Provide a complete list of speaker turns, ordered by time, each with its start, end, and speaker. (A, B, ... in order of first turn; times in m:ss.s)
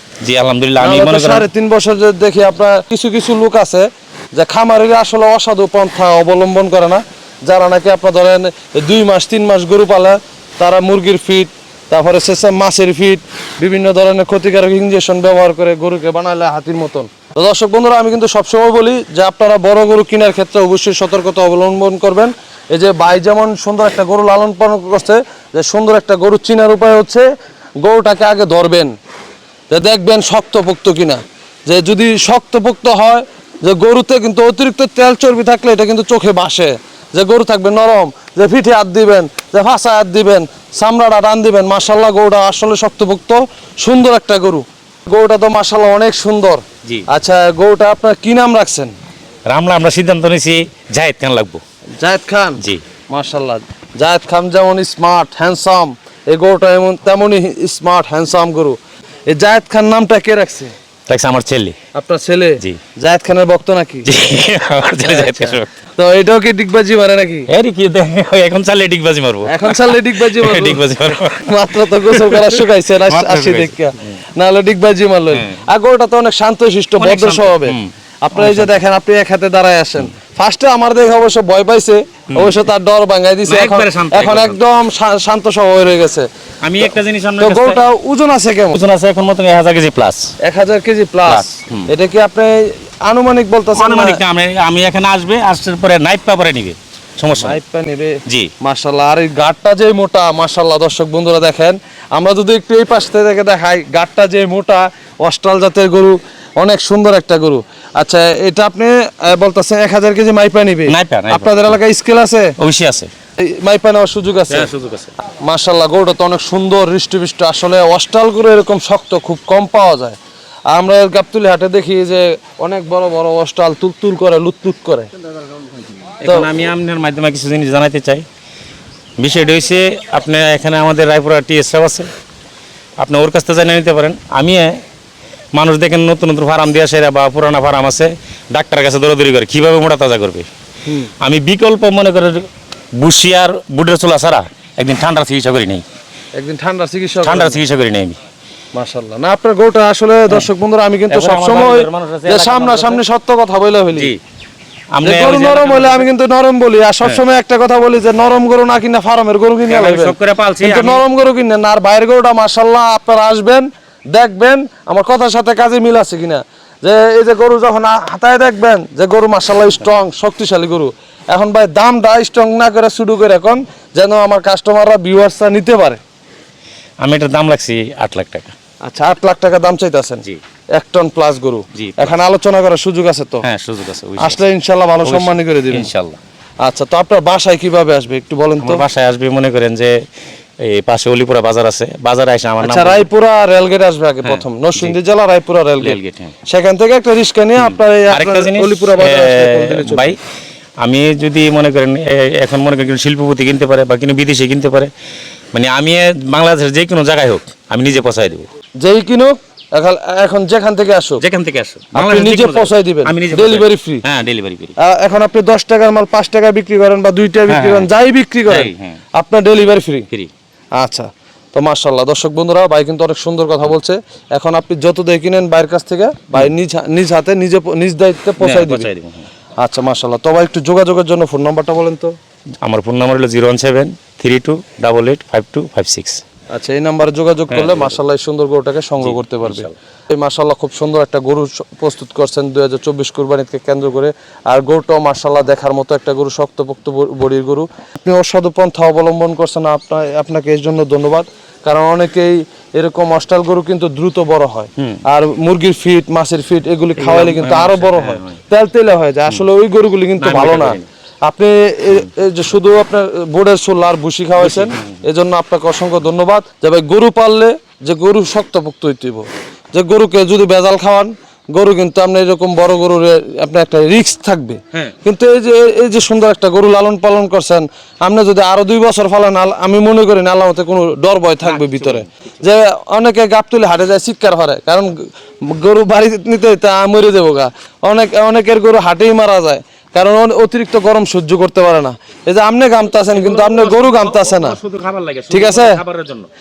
0:00.2-0:01.4 A
0:00.8-0:27.3 B
0:27.8-0:28.9 B
0:29.7-0:48.9 B
0:49.5-0:51.6 A
0:52.0-0:58.8 B
0:59.3-1:00.7 B
1:01.1-1:01.8 A
1:01.9-1:04.1 B
1:04.0-1:05.7 A
1:05.0-1:07.5 B
1:07.5-1:13.8 A
1:09.4-1:26.3 B
1:15.3-1:15.6 A
1:17.0-1:18.7 A
1:22.3-1:22.6 A
1:23.4-1:24.6 A
1:26.6-1:27.8 A
1:26.8-1:28.8 B
1:28.7-1:30.3 A
1:30.4-1:34.2 B
1:31.3-1:31.9 A
1:33.7-1:37.6 A
1:37.4-1:52.5 B
1:38.2-1:38.5 A
1:50.9-1:51.8 A
1:52.6-1:53.1 A
1:53.4-1:54.7 B
1:54.5-1:55.1 A
1:55.4-2:00.2 B
2:00.7-2:05.1 B
2:06.2-2:08.2 A
2:09.2-2:12.1 A
2:13.0-2:14.8 A
2:15.5-2:20.5 A
2:20.8-2:21.1 B
2:21.2-2:25.8 A
2:26.4-2:27.6 B
2:27.2-2:28.2 A
2:28.7-2:34.1 B
2:31.1-2:33.0 A
2:34.9-2:36.1 A
2:35.0-2:56.0 B
2:39.7-2:41.0 A
2:57.0-2:58.5 A
2:58.8-3:00.2 B
3:00.8-3:03.4 B
3:01.7-3:02.2 A
3:03.4-3:04.4 A
3:04.2-3:05.9 B
3:05.0-3:06.2 A
3:06.6-3:08.8 B
3:08.6-3:10.0 A
3:10.6-3:13.0 A
3:12.6-3:20.1 B
3:14.2-3:14.9 A
3:15.8-3:16.3 A
3:17.6-3:20.2 A
3:20.8-3:24.9 A
3:25.5-3:28.5 A
3:28.8-3:31.2 B
3:31.2-3:34.7 A
3:31.9-3:34.0 B
3:34.8-3:40.1 B
3:37.5-3:37.9 A
3:38.4-3:39.0 A
3:40.8-3:48.9 B
3:48.4-3:49.3 A
3:49.6-3:52.1 B
3:52.6-3:56.2 A
3:56.5-4:54.6 B
3:57.5-3:58.0 A
3:59.0-3:59.7 A
4:17.0-4:18.4 A
4:20.2-4:20.8 A
4:24.4-4:25.0 A
4:41.4-4:42.1 A
4:53.1-4:56.3 A
4:55.3-4:55.8 B